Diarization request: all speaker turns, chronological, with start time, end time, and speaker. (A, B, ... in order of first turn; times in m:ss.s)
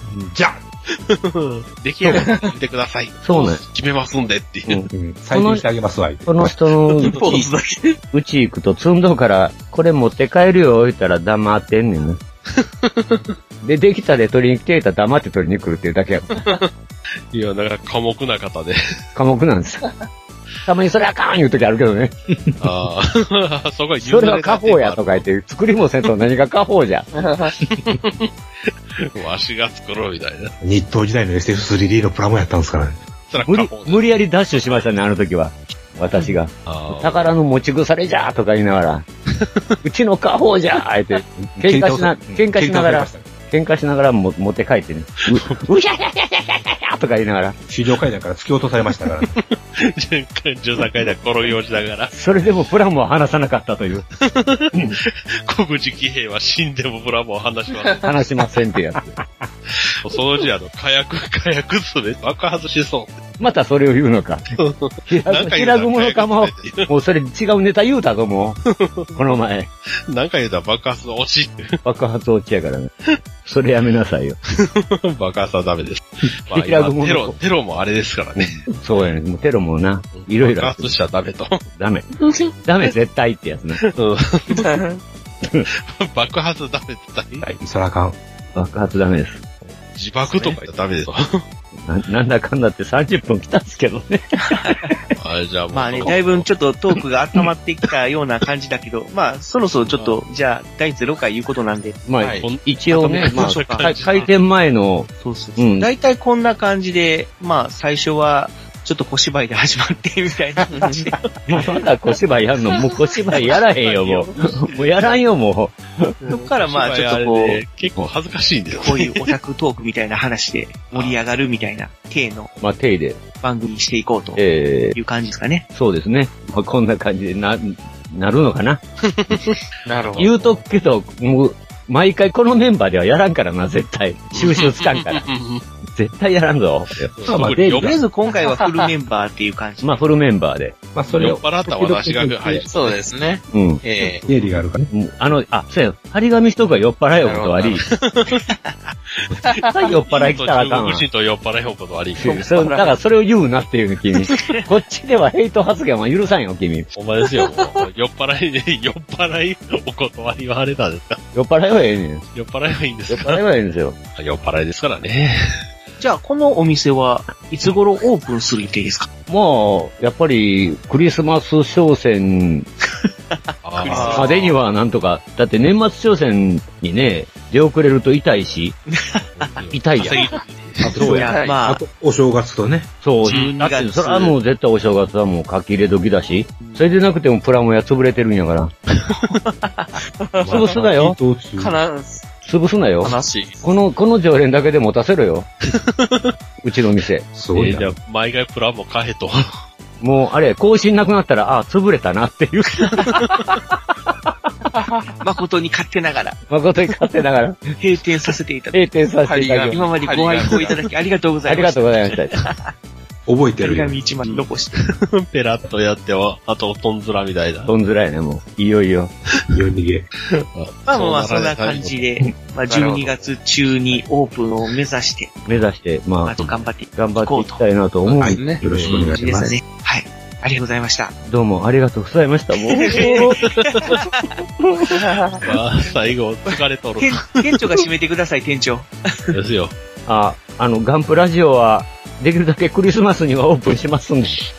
0:00.1-0:00.6 A
0:00.9-0:04.8 B
0:03.2-0:03.6 C
0:04.7-0:05.6 C
0:04.9-0:06.5 A
0:06.2-0:07.4 C
0:06.9-0:08.0 D
0:08.1-0:12.2 C
0:13.6-0:16.4 C
0:17.3-0:18.8 B
0:19.1-0:19.9 C
0:20.6-0:22.1 C
0:22.6-0:25.3 B
0:24.0-0:27.1 C
0:27.1-0:27.5 D
0:27.6-0:28.0 A
0:27.8-0:30.6 B
0:30.6-0:33.0 A
0:33.3-0:34.1 B
0:33.4-0:39.0 C
0:36.6-0:37.3 B
0:39.4-0:39.7 B
0:39.8-0:47.6 C
0:41.4-0:43.3 A
0:45.3-0:45.6 B
0:47.7-0:49.4 A
0:49.2-0:52.2 B
0:52.1-0:54.0 C
0:54.2-0:58.1 B
0:58.0-0:59.1 C
0:59.9-1:03.2 B
1:03.4-1:04.4 C
1:04.5-1:06.9 B
1:05.1-1:08.6 C
1:08.7-1:09.2 B
1:09.1-1:09.7 C
1:10.1-1:11.8 B
1:11.8-1:12.9 C
1:13.4-1:14.4 C
1:14.5-1:18.6 B
1:16.5-1:17.4 C
1:18.4-1:20.9 C
1:20.1-1:21.6 B
1:21.7-1:22.0 C
1:22.6-1:23.8 C
1:23.8-1:24.7 B
1:24.5-1:24.9 D
1:25.7-1:27.4 B
1:27.4-1:28.2 A
1:28.5-1:29.4 C
1:29.9-1:31.4 B
1:31.8-1:35.1 C
1:34.4-1:34.9 E
1:35.2-1:36.5 B
1:35.7-1:42.0 E
1:39.9-1:40.2 B
1:42.1-1:45.9 C
1:42.2-1:42.4 D
1:42.4-1:44.3 B
1:43.0-1:43.9 E
1:45.2-1:51.1 E
1:50.7-1:51.2 D
1:51.5-1:56.2 C
1:53.4-1:55.2 B
1:56.2-1:59.3 B
1:56.3-1:57.6 E
1:58.7-2:02.5 E
2:02.6-2:03.2 C
2:03.4-2:05.6 E
2:04.4-2:05.0 C
2:05.7-2:08.8 C
2:09.1-2:09.6 B
2:09.8-2:10.3 D
2:10.2-2:15.2 C
2:14.3-2:15.6 B
2:15.9-2:17.1 C
2:17.1-2:18.0 B
2:17.2-2:18.0 A
2:17.8-2:20.0 E
2:18.6-2:18.8 D
2:19.8-2:20.8 C
2:20.9-2:22.7 A
2:21.2-2:23.0 B
2:22.7-2:24.2 D
2:23.5-2:23.8 C
2:24.2-2:24.5 B
2:24.3-2:24.9 A
2:24.9-2:27.8 C
2:27.2-2:27.8 D
2:27.9-2:28.4 B
2:28.5-2:28.8 E
2:29.5-2:29.7 D
2:29.6-2:31.1 C
2:30.0-2:32.5 B
2:32.2-2:36.9 C
2:32.2-2:32.7 D
2:32.5-2:32.9 E
2:36.9-2:41.2 B
2:41.3-2:42.2 C
2:42.3-2:43.4 B
2:43.1-2:44.0 C
2:44.2-2:45.6 B
2:46.0-2:49.1 E
2:49.3-2:52.7 C
2:53.6-2:54.2 B
2:53.8-2:54.4 E
2:53.8-2:54.6 D
2:54.1-2:58.8 C
2:58.9-2:59.5 E
2:59.4-3:01.0 B
2:59.7-3:00.2 C
3:00.8-3:02.9 A
3:01.0-3:01.3 C
3:01.2-3:01.8 E
3:01.2-3:01.6 D
3:03.0-3:08.7 C
3:03.2-3:04.4 E
3:06.6-3:06.8 E
3:09.2-3:10.0 E
3:10.2-3:10.8 D
3:10.4-3:11.8 A
3:10.4-3:11.2 C
3:11.6-3:12.2 D
3:12.4-3:15.5 C
3:13.0-3:13.6 D
3:15.7-3:16.3 B
3:16.6-3:17.3 C
3:17.3-3:17.9 A
3:17.5-3:19.4 B
3:20.0-3:23.3 C
3:25.2-3:26.4 E
3:26.5-3:27.7 C
3:27.8-3:28.8 E
3:28.7-3:29.8 C
3:29.2-3:30.8 D
3:29.7-3:32.5 E
3:31.4-3:32.3 C
3:33.2-3:34.0 A
3:33.6-3:34.7 E
3:34.7-3:37.7 B
3:37.7-3:39.1 C
3:39.5-3:40.1 A
3:40.3-3:42.1 B
3:40.9-3:45.4 E
3:42.7-3:43.3 D
3:45.4-3:46.4 C
3:46.2-3:47.6 E
3:46.9-3:48.9 C
3:48.1-3:49.6 D
3:48.2-3:49.5 A
3:48.9-3:51.1 E
3:51.2-3:53.4 C
3:52.7-3:54.2 E
3:54.9-3:55.4 E
3:55.4-3:57.7 B
3:57.0-3:59.4 E
3:59.3-3:59.7 B
4:00.0-4:04.4 C